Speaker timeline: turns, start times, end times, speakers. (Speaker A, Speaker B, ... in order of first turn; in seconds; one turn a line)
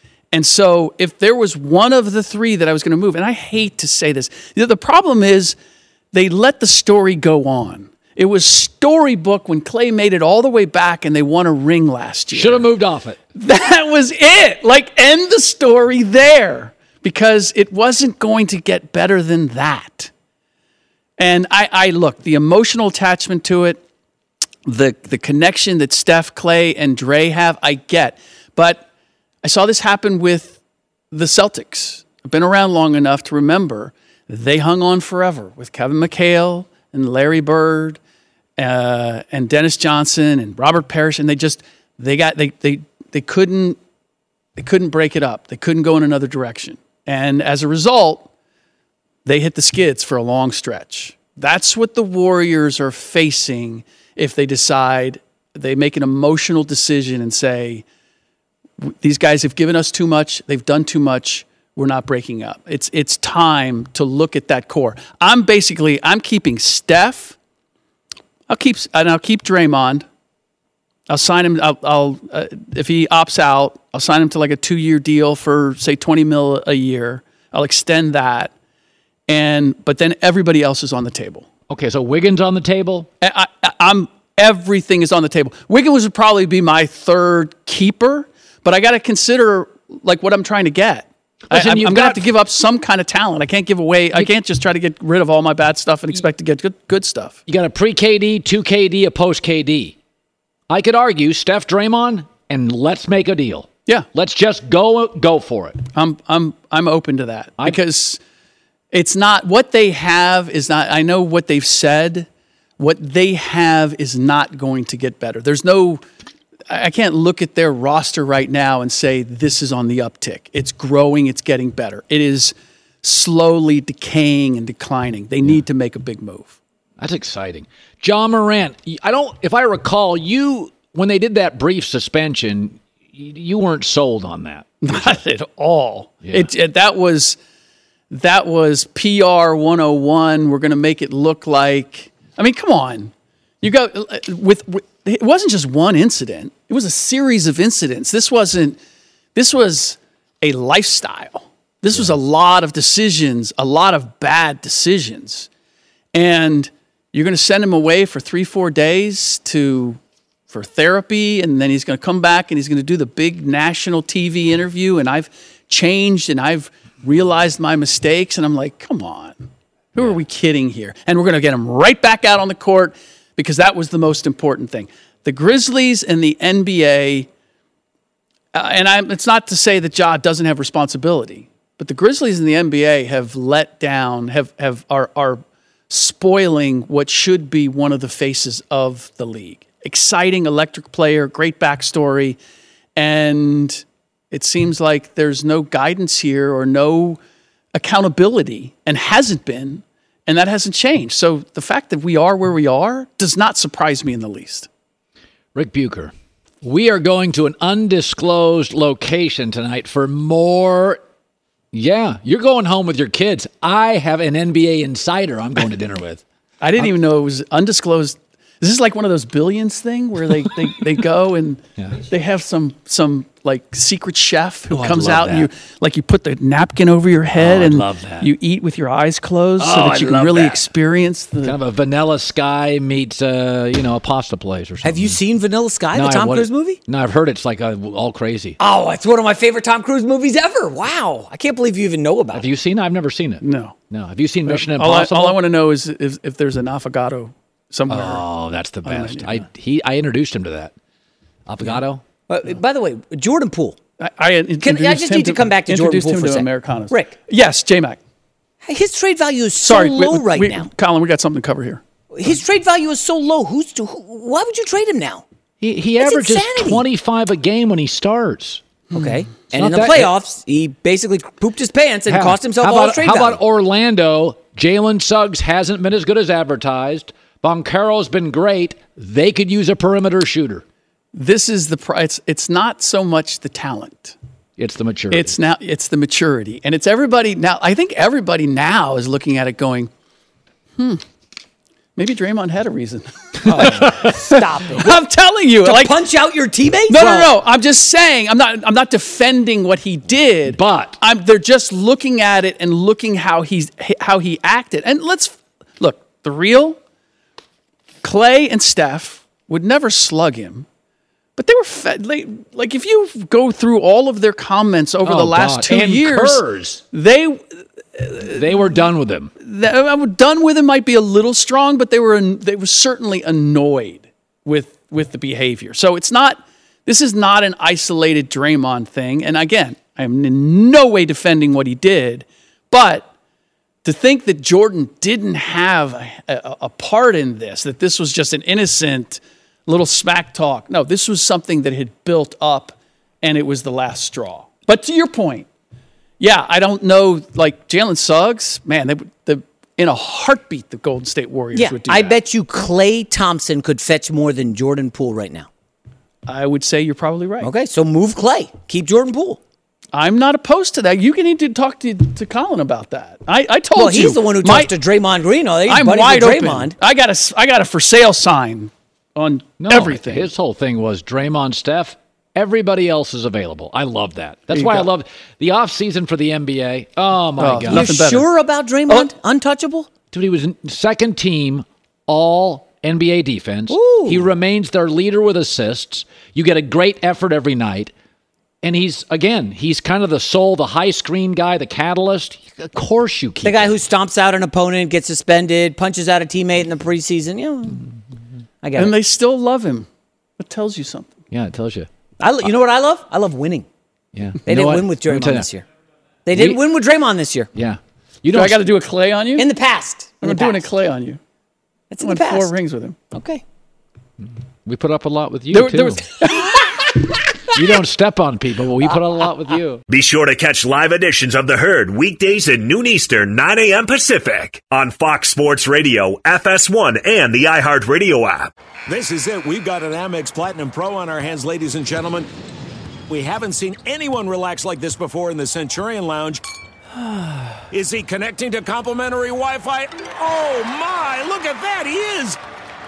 Speaker A: 0.3-5.6
Speaker A: 6.1-12.7
Speaker B: 12.3-13.2
Speaker A: 13.3-20.1
Speaker A: 21.2-23.8
Speaker A: 24.6-28.9
Speaker A: 29.4-30.6
Speaker A: 31.1-38.0
Speaker A: 38.6-43.8
Speaker A: 44.6-48.3
Speaker A: 49.2-57.8
Speaker A: 58.8-67.4
Speaker A: 68.5-70.1
Speaker A: 71.1-78.5
Speaker A: 79.3-81.5
Speaker B: 81.7-83.1
Speaker A: 83.2-97.4
Speaker B: 91.5-92.2
Speaker B: 97.5-100.0
Speaker B: 100.7-105.8
Speaker A: 106.0-108.2
Speaker A: 108.9-116.0
Speaker A: 116.7-126.5
Speaker B: 127.0-135.0
Speaker A: 134.8-137.4
Speaker B: 136.2-136.5
Speaker A: 138.1-148.8
Speaker A: 149.3-155.5
Speaker B: 151.9-152.2
Speaker A: 156.1-177.3
Speaker A: 178.5-192.4
Speaker A: 193.0-197.2
Speaker A: 197.7-204.7
Speaker B: 205.6-211.0
Speaker B: 211.7-216.2
Speaker A: 216.6-231.6
Speaker B: 224.7-225.5
Speaker B: 227.4-228.3
Speaker B: 229.6-230.7
Speaker B: 231.4-235.2
Speaker C: 234.8-236.8
Speaker B: 235.9-238.6
Speaker C: 238.6-242.5
Speaker B: 242.3-245.4
Speaker A: 243.4-243.8
Speaker A: 244.5-248.2
Speaker B: 247.9-250.7
Speaker A: 248.8-249.4
Speaker B: 251.5-252.0
Speaker C: 252.3-253.8
Speaker A: 254.0-258.0
Speaker C: 254.6-257.1
Speaker C: 258.6-260.7
Speaker A: 259.6-261.8
Speaker C: 262.1-265.2
Speaker B: 265.6-268.6
Speaker C: 266.0-266.8
Speaker A: 268.9-269.2
Speaker C: 268.9-273.4
Speaker B: 269.5-270.1
Speaker B: 272.1-280.6
Speaker A: 281.1-284.2
Speaker B: 284.6-285.4
Speaker A: 285.1-289.9
Speaker A: 290.8-291.0
Speaker A: 292.0-296.0
Speaker B: 293.4-294.1
Speaker C: 293.6-295.0
Speaker C: 295.6-297.3
Speaker A: 296.9-306.8
Speaker B: 300.5-301.0
Speaker A: 308.0-310.7
Speaker A: 311.4-318.7
Speaker B: 315.0-316.8
Speaker B: 318.2-319.3
Speaker A: 319.4-333.1
Speaker A: 333.8-345.5
Speaker A: 346.2-352.2
Speaker C: 351.5-355.5
Speaker A: 356.3-357.5
Speaker C: 357.4-359.4
Speaker A: 359.9-364.7
Speaker C: 363.8-366.8
Speaker A: 365.7-370.3
Speaker B: 369.6-377.9
Speaker A: 374.5-374.9
Speaker A: 377.4-378.3
Speaker C: 377.7-379.9
Speaker B: 380.1-387.9
Speaker C: 383.7-384.3
Speaker B: 388.6-393.8
Speaker C: 393.4-397.8
Speaker C: 398.6-398.9
Speaker A: 398.8-399.9
Speaker A: 400.4-401.1
Speaker B: 401.3-401.9
Speaker C: 402.2-403.7
Speaker B: 404.1-405.5
Speaker C: 404.5-405.6
Speaker C: 406.2-407.5
Speaker B: 406.3-406.6
Speaker B: 407.6-408.6
Speaker A: 408.3-409.5
Speaker C: 409.4-410.7
Speaker A: 410.2-411.2
Speaker C: 411.9-412.5
Speaker A: 412.0-413.0
Speaker C: 413.1-413.4
Speaker B: 414.2-416.1
Speaker A: 415.5-416.6
Speaker B: 417.5-419.8
Speaker D: 419.9-428.5
Speaker E: 428.9-432.3
Speaker E: 433.1-436.4
Speaker E: 437.7-442.4